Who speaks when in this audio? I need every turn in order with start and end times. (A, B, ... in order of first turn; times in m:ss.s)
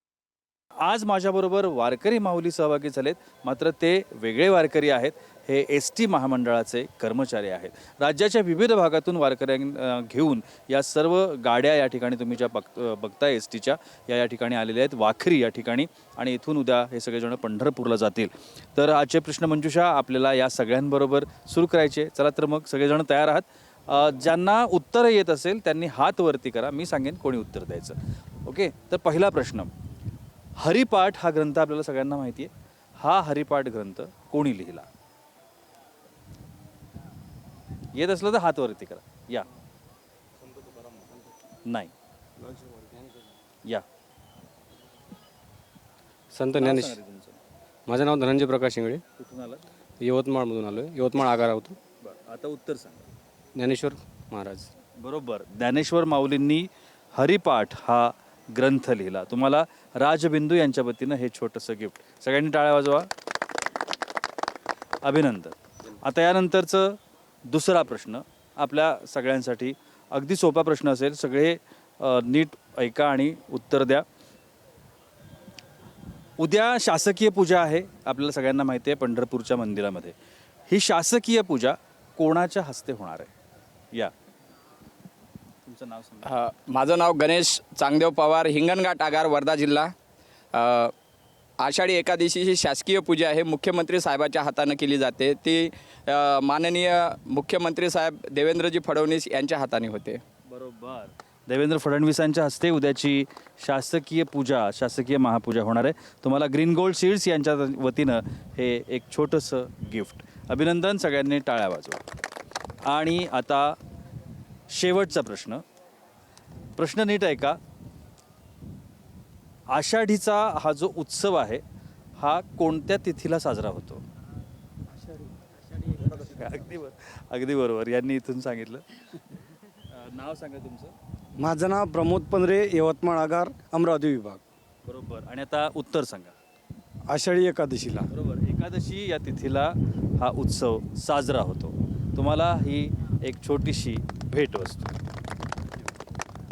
0:00.8-0:29.7 A
0:30.6-0:34.9 A
0:38.0-0:39.4 A
0:41.6-0:41.9 A
0:46.3-0:47.0 B
0:46.6-0:47.4 A
0:47.9-0:49.0 B
0:49.2-0:49.6 A
0:50.0-0:51.8 B
0:52.0-0:53.0 A
0:53.6-0:54.7 B
0:55.0-1:03.1 A
1:05.0-1:14.0 A
1:16.4-1:20.1 A
1:20.7-1:23.3 A
1:25.6-1:26.3 A
1:26.2-1:29.9 C
1:30.5-1:30.9 C
1:31.6-1:40.2 C
1:40.5-1:52.0 A
1:52.8-1:53.8 A
1:54.7-1:55.6 A
1:56.8-1:57.6 A
1:59.7-2:01.6 A
2:02.2-2:04.0 A
2:06.1-2:08.8 A
2:09.9-2:10.9 A
2:11.4-2:14.4 D
2:14.8-2:16.3 A
2:17.1-2:18.1 D
2:18.1-2:24.9 A